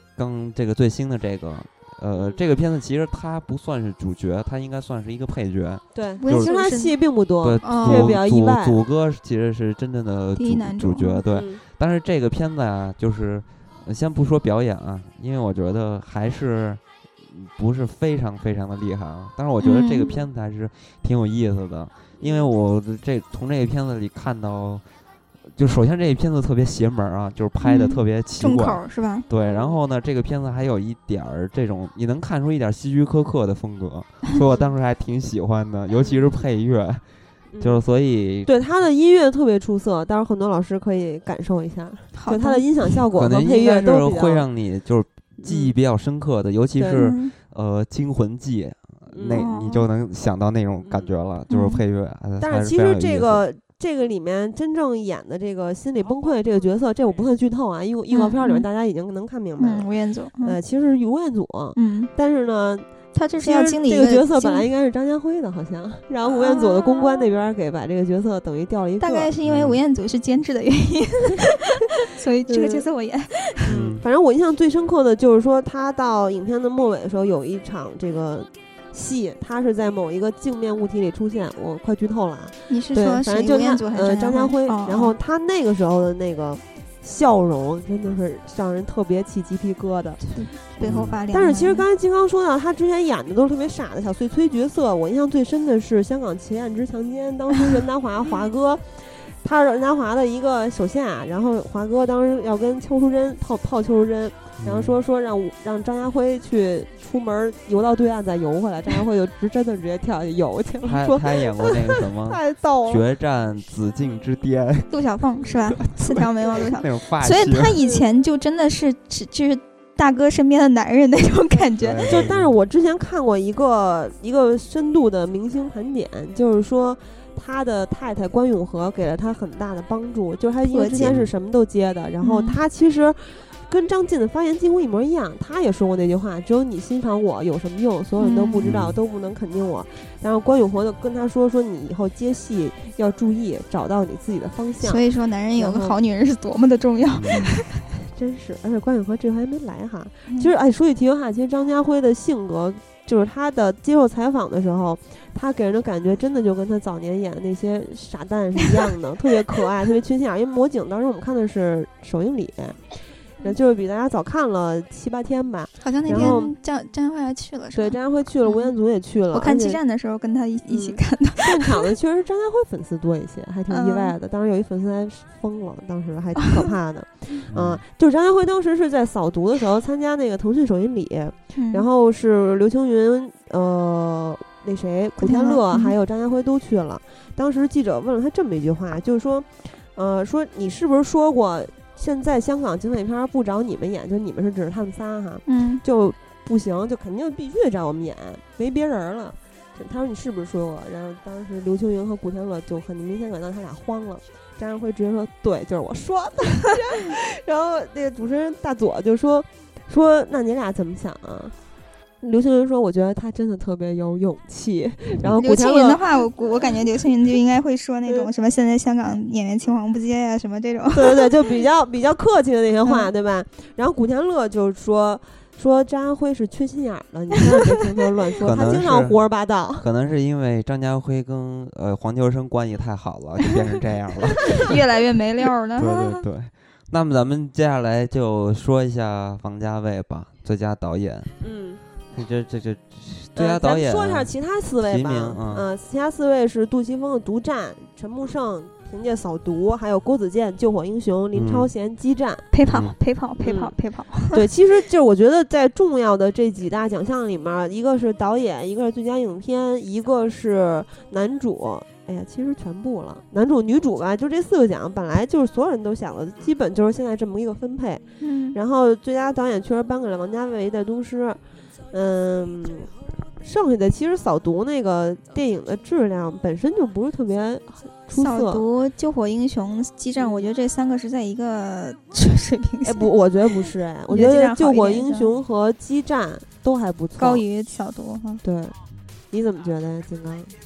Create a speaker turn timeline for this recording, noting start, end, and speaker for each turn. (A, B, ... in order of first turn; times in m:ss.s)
0:00.2-0:06.5 A
0:02.1-0:02.4 B
0:05.9-0:08.8 B
0:06.2-0:06.9 C
0:07.4-0:24.8 A
0:07.6-0:08.1 C
0:10.4-0:11.2 C
0:11.3-0:11.6 B
0:19.6-0:20.2 C
0:22.2-0:22.5 B
0:25.5-0:37.0 A
0:27.6-0:29.2 C
0:29.4-0:29.8 B
0:34.4-0:34.7 B
0:35.9-0:36.3 B
0:37.5-0:37.8 B
0:37.6-0:38.5 A
0:38.4-0:44.4 B
0:42.2-0:42.6 C
0:43.1-0:53.4 A
0:45.4-0:45.8 B
0:46.8-0:47.1 B
0:46.9-0:47.3 C
0:49.1-0:49.4 B
0:49.3-0:49.8 C
0:50.8-0:51.1 B
0:51.5-0:51.8 C
0:52.4-1:09.3 B
0:58.1-0:58.6 C
0:59.6-1:00.6 C
1:01.8-1:02.1 C
1:03.1-1:04.7 C
1:06.2-1:07.3 C
1:09.0-1:13.6 C
1:09.4-1:09.8 A
1:12.5-1:12.8 B
1:13.7-1:30.3 B
1:13.7-1:14.0 A
1:22.7-1:25.1 C
1:30.2-1:31.8 C
1:30.8-1:53.0 B
1:30.8-1:31.2 A
1:44.6-1:45.0 A
1:50.8-1:55.0 A
1:54.9-2:02.1 C
1:55.8-1:57.8 A
1:57.8-1:58.1 B
2:01.8-2:02.5 A
2:02.0-2:25.0 B
2:10.7-2:11.1 C
2:11.0-2:11.3 A
2:12.2-2:12.6 C
2:18.2-2:18.7 C
2:18.6-2:19.0 A
2:24.8-2:27.8 C
2:25.6-2:26.0 B
2:27.1-2:27.5 A
2:28.0-2:46.5 B
2:45.8-2:48.8 C
2:46.1-2:46.4 A
2:47.7-2:49.8 B
2:49.3-2:51.8 C
2:50.7-3:31.6 B
2:53.7-2:54.1 C
2:57.5-2:57.8 A
3:01.6-3:01.8 C
3:05.2-3:05.9 C
3:15.4-3:15.8 C
3:32.2-3:36.8 B
3:35.4-3:41.3 C
3:40.9-3:49.9 B
3:48.4-3:49.2 A
3:49.8-3:54.8 A
3:54.6-3:56.2 C
3:55.8-4:01.3 A
4:01.4-4:01.8 B
4:02.1-4:04.3 A
4:03.4-4:12.4 B
4:04.8-4:05.7 A
4:11.3-4:11.7 A
4:12.5-4:14.4 C
4:12.7-4:12.9 A
4:13.4-4:31.4 B
4:28.2-4:28.6 C
4:31.9-4:38.6 B
4:38.1-4:43.1 C
4:40.2-4:40.5 B
4:42.8-4:47.4 B
4:44.1-4:45.3 C
4:47.2-4:48.4 C
4:48.4-4:48.8 B
4:49.3-4:50.6 B